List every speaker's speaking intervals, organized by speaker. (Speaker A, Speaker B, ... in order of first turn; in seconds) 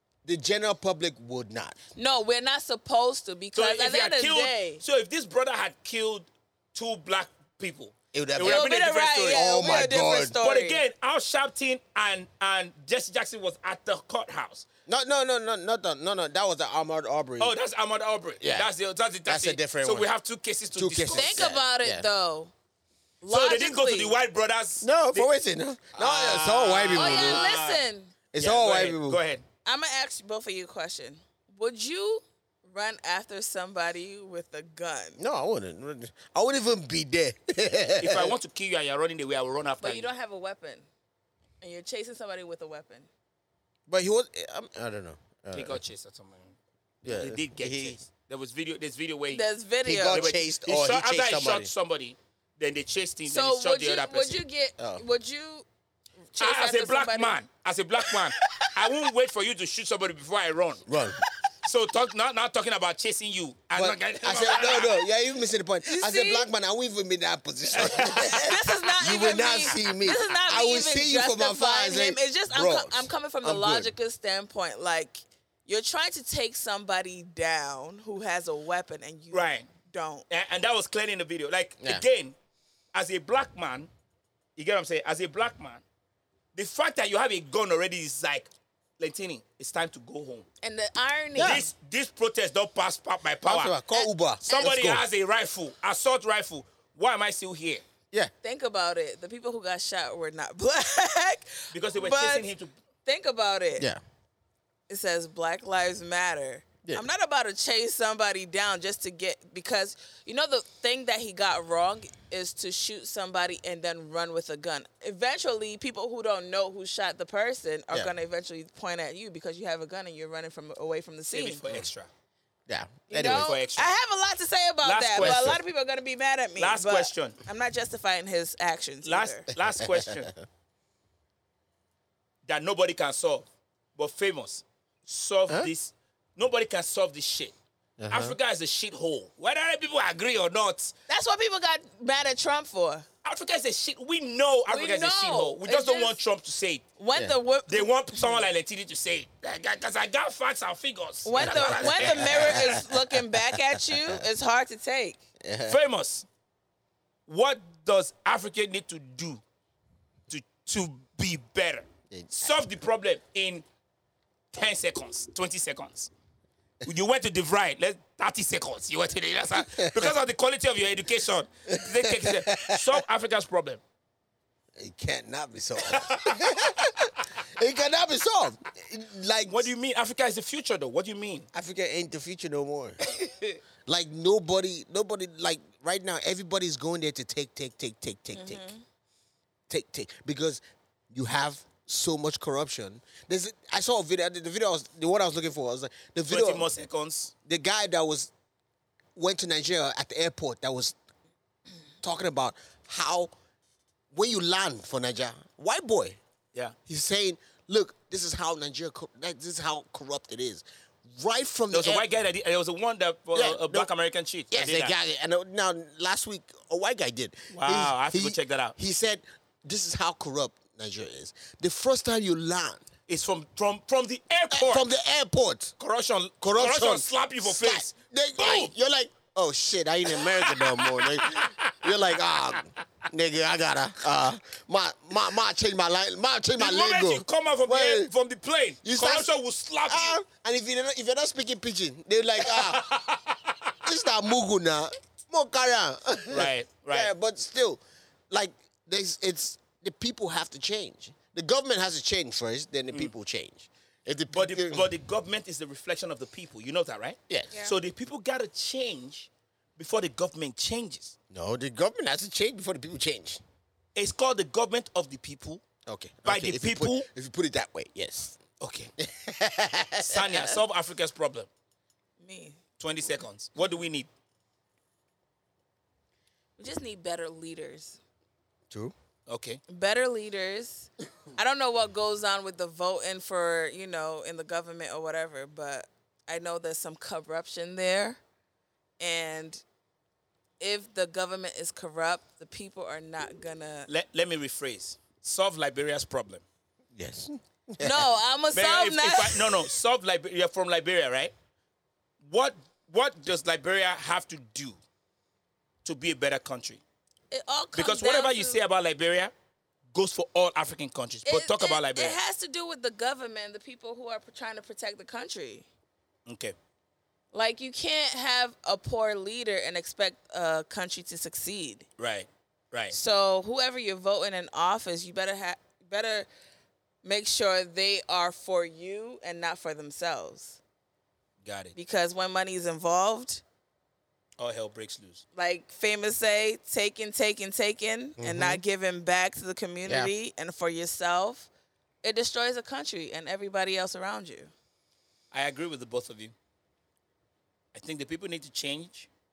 Speaker A: 0.2-1.8, 8.1-8.7, 9.3-10.4, 14.9-17.5, 18.4-18.7, 19.3-20.1, 20.8-22.1, 24.8-27.5, 28.3-29.2, 35.2-38.4, 43.9-45.8, 47.0-48.0, 49.9-51.7, 60.9-61.2, 63.8-73.9, 91.4-91.7, 93.5-95.0, 122.7-123.5, 125.2-125.6, 129.7-130.3, 138.0-138.4, 151.4-154.0, 155.4-155.8, 162.1-162.6, 169.6-170.1, 171.7-173.0, 174.8-179.7, 181.5-183.0, 183.9-188.7, 189.7-196.7, 197.5-198.3, 199.2-201.0, 202.0-203.3, 204.1-206.2, 206.9-212.1, 213.3-213.9, 214.5-222.8, 224.5-225.8, 226.4-238.1, 238.8-239.3, 239.9-242.9, 243.8-247.8, 248.3-254.9, 261.3-263.4, 265.9-268.4, 269.0-270.6, 296.9-298.1, 338.2-338.6, 339.9-340.1
Speaker B: 1.9-4.8, 8.4-10.8, 21.1-22.5, 23.2-24.1, 26.9-28.1, 29.6-35.2, 39.8-40.9, 41.6-43.1, 49.3-50.4, 53.3-55.7, 56.3-57.4, 65.8-66.5, 68.3-80.2, 90.6-91.7, 98.4-102.5, 103.0-103.9, 104.9-121.6, 123.1-129.5, 141.1-143.1, 144.7-146.2, 147.0-148.2, 151.2-155.2, 188.3-188.8, 272.2-272.6, 276.6-278.0, 279.7-288.2, 289.0-289.6, 290.6-293.9, 297.8-299.5, 307.3-308.6, 311.2-315.7, 317.3-321.9, 322.9-326.3, 327.0-330.6, 331.8-333.4, 335.4-341.5, 342.0-344.5
Speaker C: 3.5-9.4, 10.4-14.7, 17.4-21.4, 23.3-25.3, 25.9-27.8, 28.4-29.4, 38.0-40.1, 45.5-46.5, 47.1-49.5, 50.1-54.4, 56.4-60.8, 61.6-65.0, 67.7-68.4, 79.3-79.7, 80.3-82.3, 82.9-83.9, 84.6-85.8, 86.5-90.5, 91.4-93.9, 94.5-97.8, 101.7-102.7, 121.3-122.1, 123.1-123.9, 124.8-125.6, 126.6-127.4, 129.1-130.3, 132.5-137.6, 138.1-140.9, 143.2-146.9, 147.7-152.8, 155.7-156.3, 157.3-159.4, 160.3-163.7, 164.5-166.1, 166.8-173.8, 175.8-176.4, 179.5-181.5, 183.2-183.6, 196.3-197.3, 211.7-214.9, 217.5-218.7, 223.1-224.9, 225.8-228.7, 230.2-231.9, 236.6-240.2, 242.4-243.7, 246.3-247.1, 254.3-261.1, 263.9-265.6, 266.2-267.1, 268.6-268.9, 270.0-271.5, 272.8-274.1, 279.3-279.6, 293.9-296.4, 298.5-301.3, 302.2-304.8, 305.9-306.8, 307.8-309.3, 309.9-312.2, 316.3-316.6, 322.0-322.9, 331.4-331.8, 334.4-335.2, 345.3-346.3, 347.7-349.1